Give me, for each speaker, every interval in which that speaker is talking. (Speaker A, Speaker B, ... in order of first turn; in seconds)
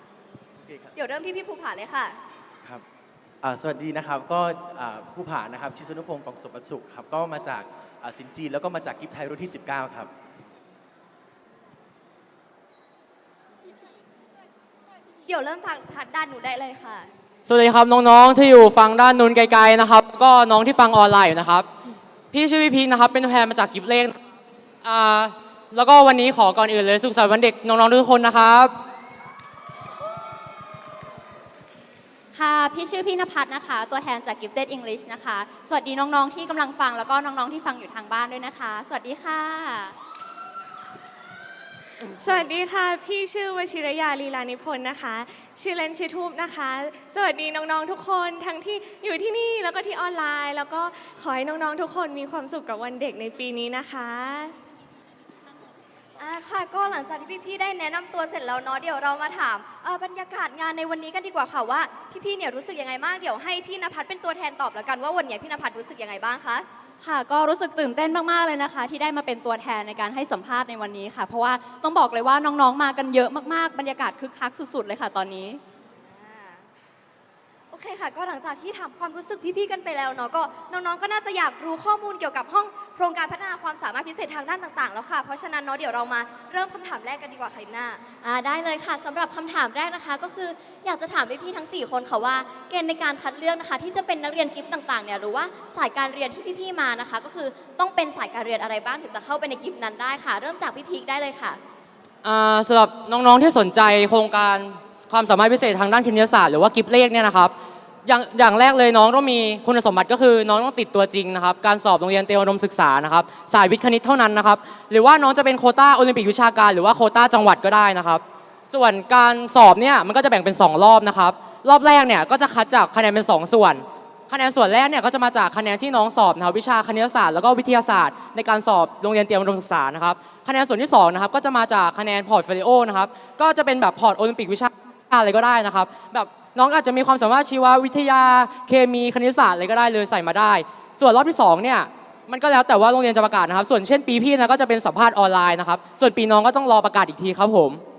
Speaker A: 0.6-0.9, 3.4-10.1
Speaker B: 1.0-2.2, 15.3-17.1, 56.2-66.7, 76.0-76.7, 77.7-88.0
Speaker C: 17.5-21.7, 22.3-24.2, 24.8-28.7, 102.2-107.5, 108.0-147.8
Speaker D: 32.3-39.9, 67.0-75.6
Speaker E: 42.2-54.6
Speaker F: 88.2-101.6